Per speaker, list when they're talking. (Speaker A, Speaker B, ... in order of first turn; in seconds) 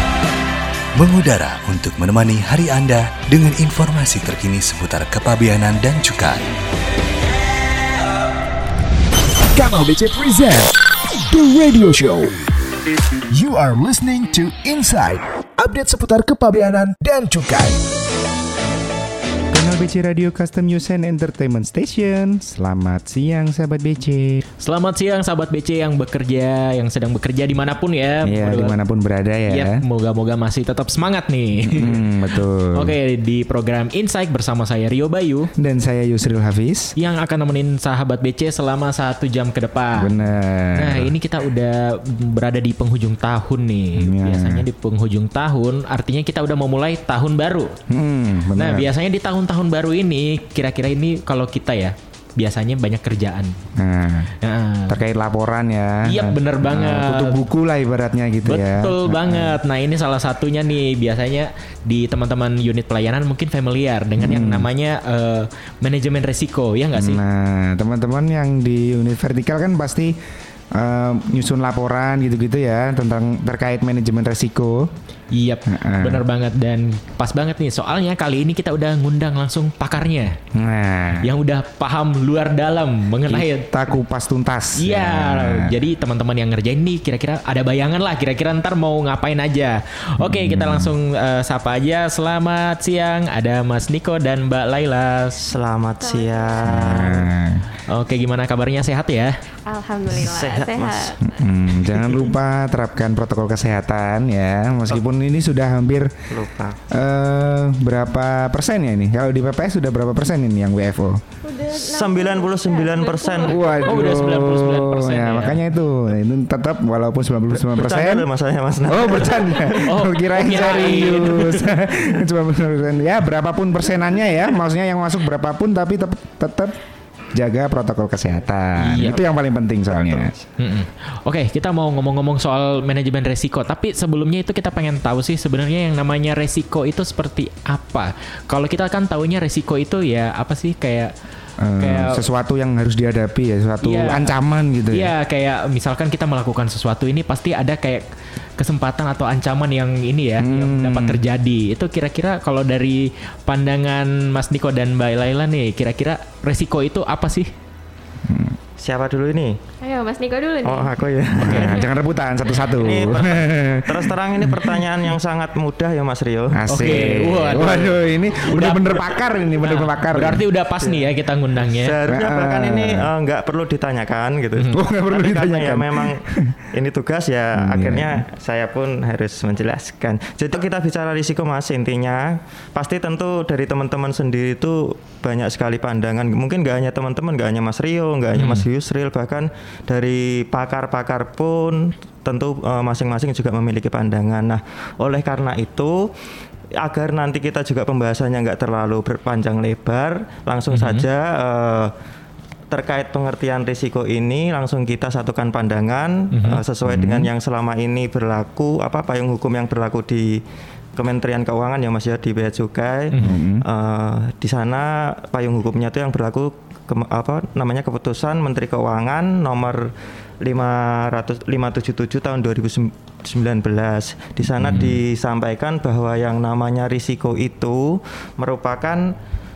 Speaker A: 1.0-6.5
Speaker B: 9.6-10.8, 11.3-12.3, 13.3-17.8
Speaker C: 19.5-24.4, 28.2-29.8, 31.7-33.0, 35.6-36.9, 40.0-41.1, 44.0-44.7, 47.9-48.9, 53.8-54.3, 54.9-59.6, 64.2-64.7, 67.0-70.2, 70.7-74.9, 75.7-76.2, 80.5-81.3, 83.3-85.8, 90.2-90.9, 96.7-97.7, 101.3-106.3, 106.9-111.2, 113.5-118.2, 118.9-126.8, 127.3-130.3, 141.6-145.1, 150.4-151.2, 158.2-158.6, 161.4-164.7, 166.5-170.4, 172.1-173.1, 174.7-176.6, 177.6-178.2, 206.8-207.3, 213.2-213.7
Speaker D: 24.6-28.8, 29.5-35.5, 37.0-40.1, 40.8-47.7, 48.6-53.6, 54.4-55.0, 56.1-57.5, 58.5-67.2, 75.3-80.4, 81.2-83.7, 84.8-95.4, 97.9-99.3, 113.8-115.6, 119.9-121.8, 128.8-129.2, 130.6-141.1, 141.8-142.2, 143.8-144.3, 144.9-148.0, 148.6-157.5, 161.4-161.8, 166.7-172.0, 188.3-188.7, 200.7-201.1, 206.3-206.6, 213.1-213.4, 224.6-225.0
Speaker E: 95.4-97.3, 100.1-101.2, 106.3-106.8, 111.7-113.6, 117.7-119.9, 129.0-130.5, 158.8-159.6, 160.7-161.8, 162.8-167.6, 170.8-196.1, 196.8-201.9, 202.7-210.4, 211.0-229.2
Speaker F: 96.0-96.9, 99.7-101.4, 111.4-113.8, 159.8-160.9